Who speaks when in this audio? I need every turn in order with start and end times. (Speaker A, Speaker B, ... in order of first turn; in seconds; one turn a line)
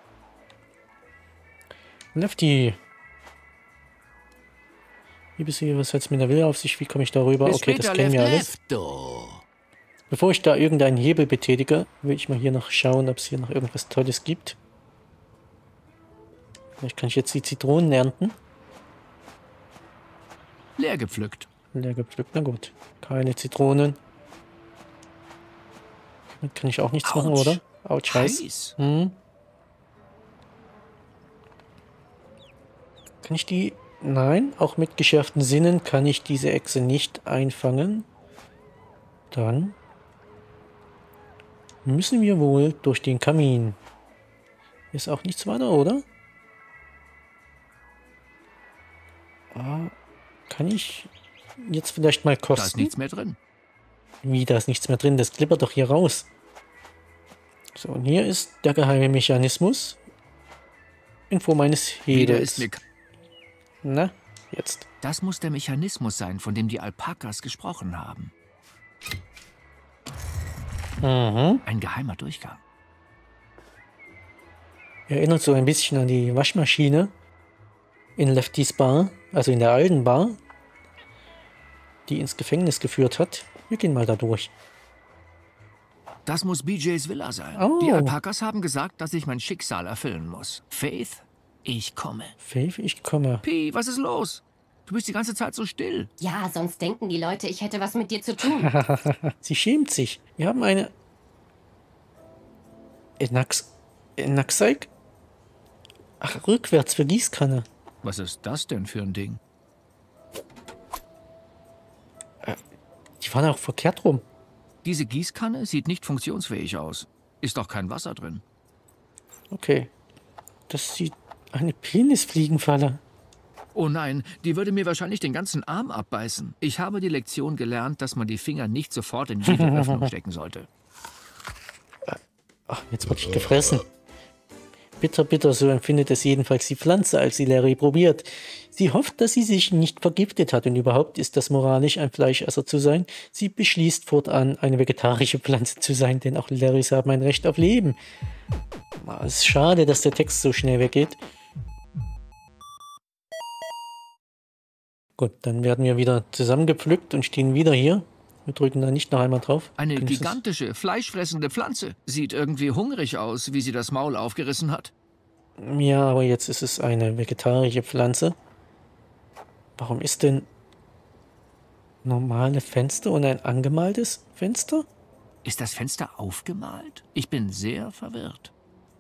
Speaker A: 2.1-2.8
Speaker A: 5.4-8.5
Speaker B: 7.4-9.4
Speaker A: 10.1-14.6
Speaker A: 16.8-18.4
Speaker B: 20.8-21.5
Speaker A: 21.7-24.0
Speaker A: 26.3-29.2
Speaker B: 27.0-28.8
Speaker A: 33.2-38.1
Speaker A: 39.3-39.8
Speaker A: 41.8-43.8
Speaker A: 44.9-46.0
Speaker A: 49.5-49.9
Speaker A: 50.5-52.9
Speaker B: 52.5-53.4
Speaker A: 54.2-56.3
Speaker A: 57.7-60.0
Speaker A: 61.3-62.7
Speaker B: 62.1-62.8
Speaker A: 63.8-64.8
Speaker B: 65.0-68.3
Speaker A: 71.0-71.6
Speaker B: 71.6-72.6
Speaker A: 75.1-77.1
Speaker A: 78.2-80.4
Speaker A: 82.1-84.5
Speaker B: 86.2-92.3
Speaker A: 87.5-88.1
Speaker A: 92.4-93.4
Speaker B: 93.4-96.1
Speaker C: 96.2-98.7
Speaker A: 98.4-100.9
Speaker A: 103.2-104.9
Speaker A: 106.2-107.7
Speaker B: 108.0-109.4
Speaker A: 113.2-114.2
Speaker B: 114.8-118.4
Speaker A: 119.5-119.9
Speaker A: 120.7-123.0
Speaker B: 123.7-130.7
Speaker A: 129.5-130.1
Speaker A: 132.7-133.8
Speaker A: 135.0-148.0
Speaker A: 149.0-151.2
Speaker A: 155.2-160.4
Speaker B: 159.8-164.9
Speaker A: 165.6-168.4
Speaker A: 169.8-170.5
Speaker A: 172.0-174.9
Speaker B: 175.4-178.5